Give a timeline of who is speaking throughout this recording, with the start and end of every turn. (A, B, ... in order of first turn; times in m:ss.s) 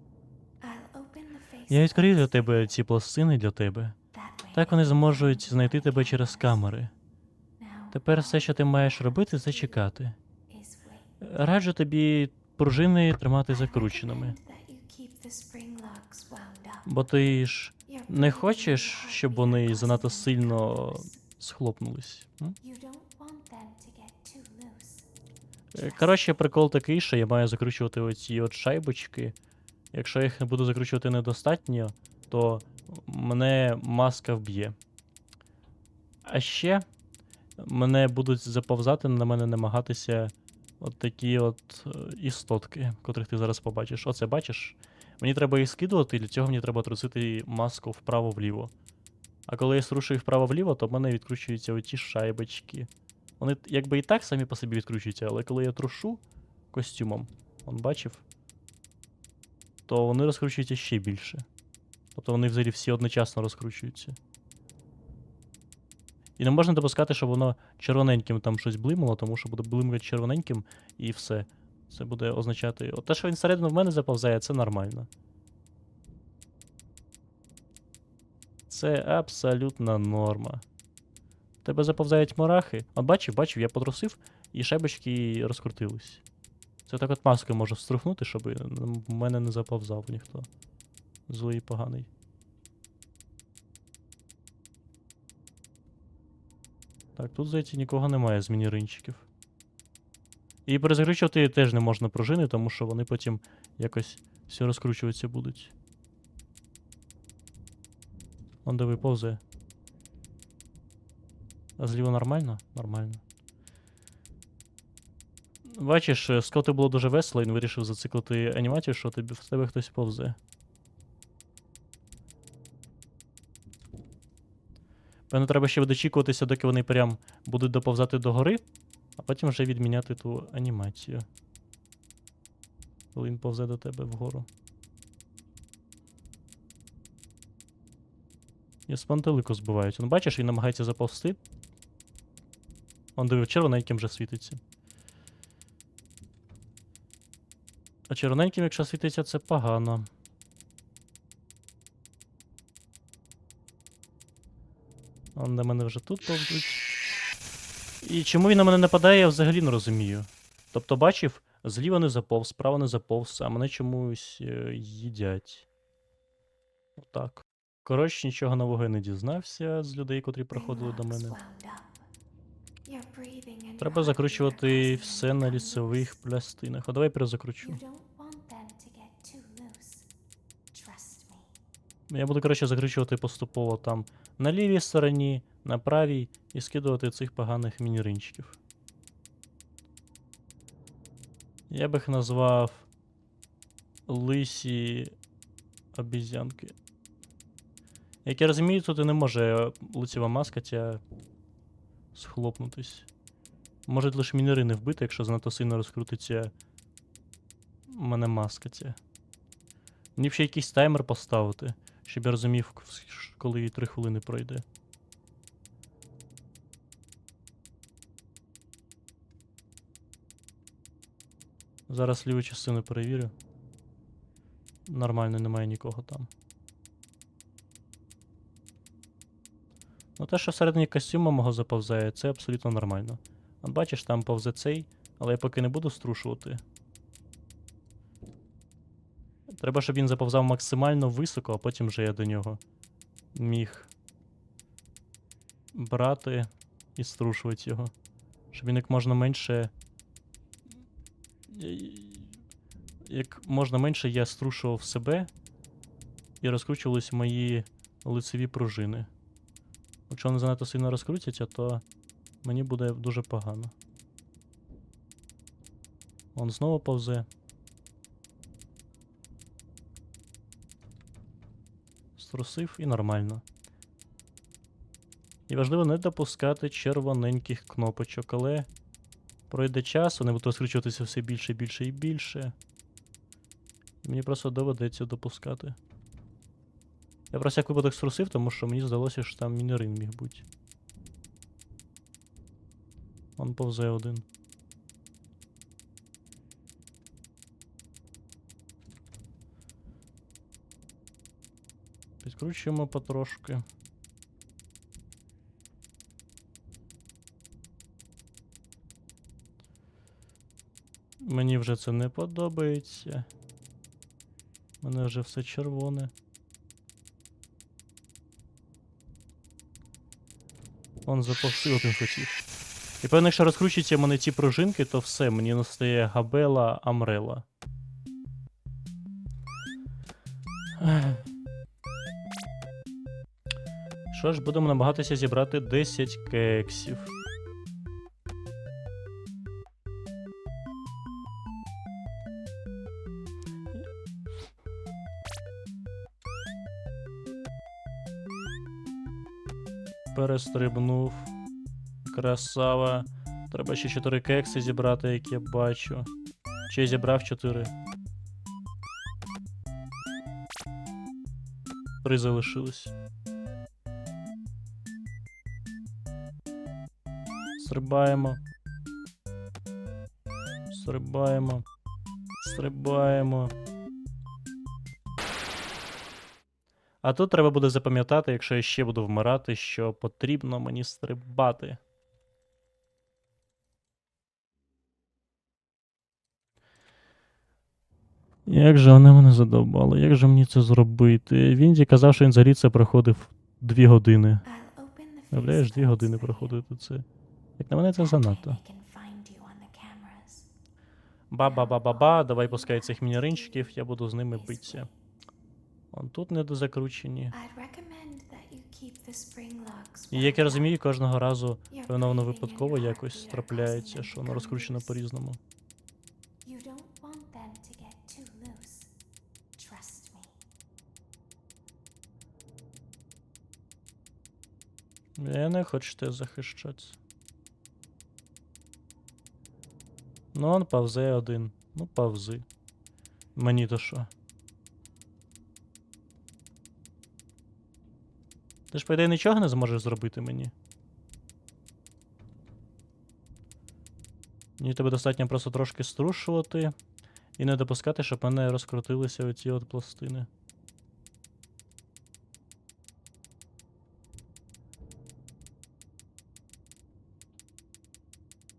0:00.6-0:02.8 A
0:01.7-0:04.0 B
0:04.1-0:06.6 A
0:04.5-0:06.9 B
0:07.6-0:09.9 A
0:07.9-0:10.2 B
0:10.5-0:11.1 A
0:11.2-0:14.4 B
0:13.5-0:17.1 A
0:16.9-0:22.6 B
0:17.9-0:21.2 A
0:22.6-0:25.1 A
0:25.7-0:29.4 B
0:25.8-0:26.3 A
0:29.9-0:34.8 B
0:36.3-0:36.8 B
0:37.6-0:48.7 B
0:49.5-0:56.2 B
0:56.7-0:58.2 B
0:59.9-1:01.5 B
1:02.2-1:04.2 B
1:06.4-1:15.1 B
1:18.7-1:20.6 B
1:21.6-1:26.2 B
1:26.9-1:30.5 B
1:31.3-1:32.1 B
1:37.2-1:39.3 B
1:40.7-1:45.7 B
1:48.6-1:49.4 B
1:51.8-1:53.2 B
1:55.6-2:00.4 B
2:05.3-2:08.6 B
2:09.2-2:11.3 B
2:13.1-2:14.5 B
2:18.9-2:21.4 B
2:23.2-2:24.6 B
2:28.1-2:30.1 B
2:35.4-2:36.8 B
2:38.0-2:45.7 B
2:47.0-2:51.4 B
2:50.5-2:52.1 A
2:52.8-2:56.2 A
2:53.8-2:57.8 B
2:57.6-3:00.1 A
3:00.7-3:01.5 A
3:02.1-3:08.6 B
3:11.7-3:12.9 B
3:14.1-3:15.1 B
3:15.9-3:16.8 B
3:18.2-3:21.0 B
3:22.2-3:23.1 B
3:23.9-3:26.5 B
3:27.9-3:29.0 B
3:30.2-3:34.6 B
3:41.9-3:43.3 B
3:44.9-3:46.3 B
3:50.2-3:56.6 B
3:59.5-4:02.6 B
4:03.4-4:03.9 B
4:05.7-4:07.9 B
4:08.5-4:09.7 B
4:11.5-4:12.4 B
4:13.0-4:15.3 B
4:16.4-4:19.1 B
4:20.1-4:21.8 B
4:22.4-4:23.7 B
4:26.4-4:27.3 B
4:32.2-4:33.4 B
4:35.5-4:38.7 B
4:39.5-4:42.6 B
4:44.0-4:45.8 B
4:47.3-4:50.4 B
4:53.4-4:54.2 B
5:02.2-5:03.6 B
5:11.2-5:13.3 B
5:14.8-5:16.1 B
5:21.1-5:22.4 B
5:23.0-5:27.4 B
5:30.8-5:31.2 B
5:34.1-5:37.1 B
5:50.1-5:51.3 B
5:52.1-5:56.1 B
5:56.7-5:57.7 B
6:02.0-6:02.9 B
6:07.6-6:08.4 B
6:10.7-6:11.6 B
6:12.4-6:13.5 B
6:17.0-6:21.8 B
6:28.5-6:34.4 B
6:34.4-6:36.6 A
6:35.3-6:37.1 B
6:37.6-6:38.6 B
6:37.9-6:40.5 A
6:41.3-6:44.9 B
6:41.4-6:45.0 A
6:45.9-6:47.4 B
6:47.3-6:50.7 A
6:50.1-6:55.4 B
6:51.7-6:55.0 A
6:56.4-6:58.9 A
6:59.6-7:00.4 A
7:05.2-7:07.0 B
7:10.3-7:12.4 B
7:13.4-7:14.1 B
7:18.7-7:20.5 B
7:24.6-7:26.7 B
7:27.4-7:30.3 B